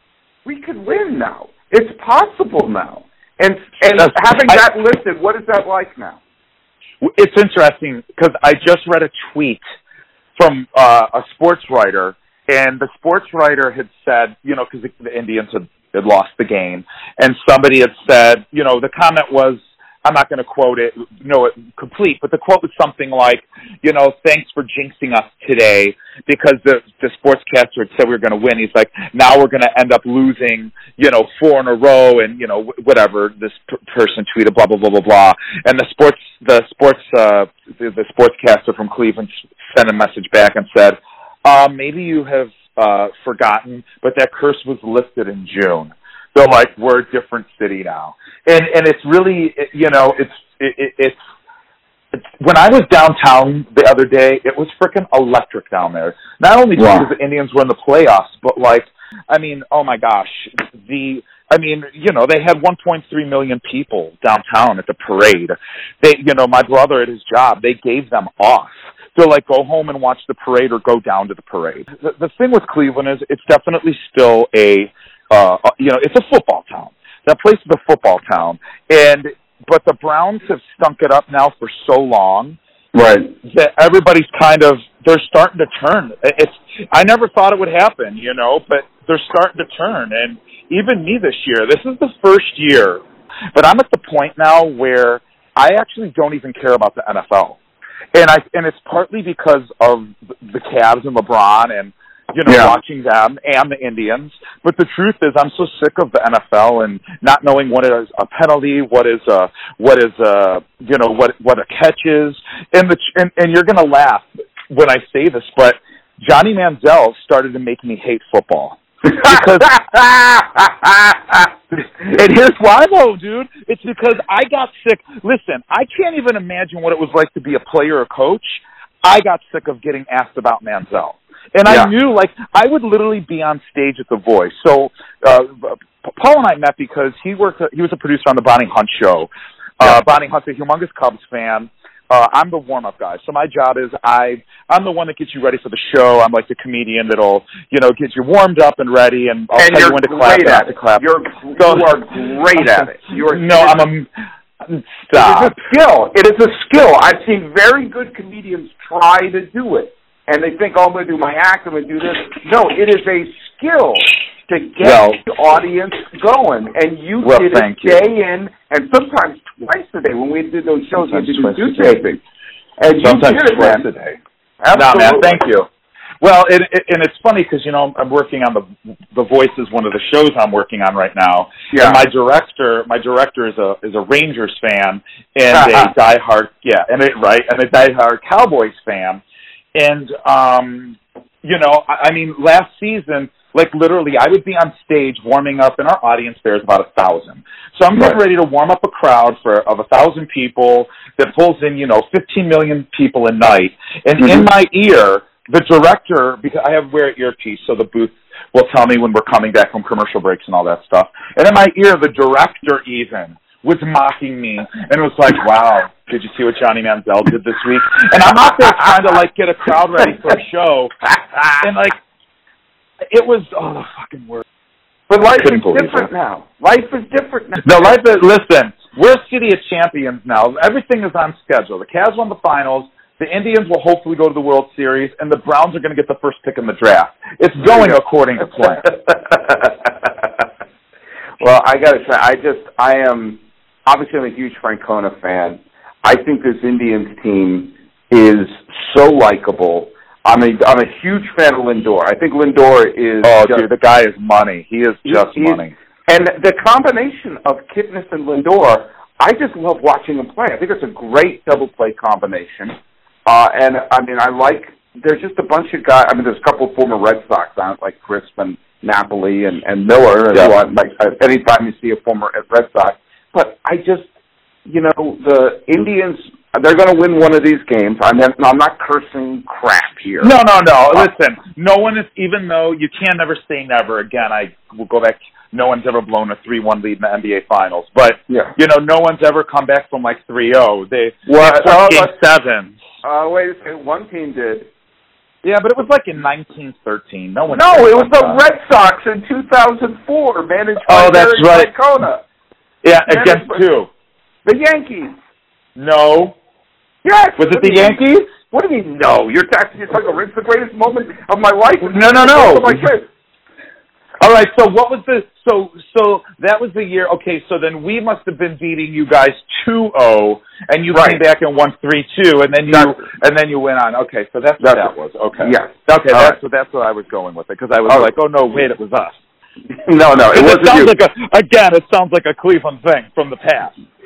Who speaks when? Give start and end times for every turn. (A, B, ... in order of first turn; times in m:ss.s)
0:00.4-0:06.2 A
0:04.0-0:04.6 B
0:07.0-0:09.6 B
0:10.4-0:51.2 B
0:52.1-1:22.6 B
0:56.8-0:57.1 A
1:22.9-1:23.3 A
1:23.4-1:33.0 B
1:33.5-1:37.6 B
1:38.1-1:59.8 B
1:42.5-1:42.8 A
1:59.2-2:01.5 A
2:02.0-2:32.0 B
2:11.7-2:11.9 A
2:29.6-2:33.9 A
2:32.6-2:34.1 B
2:34.6-2:35.6 B
2:35.1-2:52.2 A
2:44.8-2:45.2 B
2:47.2-2:48.0 B
2:50.9-2:52.0 B
2:52.8-2:53.8 A
2:53.0-2:54.2 B
2:54.6-2:55.4 A
2:54.7-2:55.7 B
2:56.2-3:09.2 B
3:01.7-3:02.0 A
3:05.5-3:05.9 A
3:09.8-3:40.9 B
3:24.2-3:24.5 A
3:41.6-3:42.0 B
3:43.1-3:44.4 B
3:45.1-3:47.9 A
3:45.4-3:46.1 B
3:47.6-3:58.9 B
3:57.6-3:58.0 A
3:58.6-4:00.4 A
4:01.4-4:13.6 A
4:13.2-4:15.7 B
4:15.1-4:34.1 A
4:34.7-4:40.3 A
4:40.2-4:52.8 B
4:48.3-4:48.5 A
4:51.3-4:52.1 A
4:53.0-4:54.7 A
4:55.4-4:58.4 B
4:57.5-5:02.2 A
5:00.9-5:01.7 B
5:02.8-5:03.9 B
5:03.1-5:03.6 A
5:04.4-5:05.2 A
5:05.8-5:06.4 B
5:07.0-5:13.1 A
5:07.4-5:08.3 B
5:11.8-5:12.8 B
5:14.2-5:29.2 B
5:20.9-5:21.2 A
5:22.7-5:23.0 A
5:24.6-5:26.4 A
5:29.8-5:31.0 A
5:30.3-5:33.8 B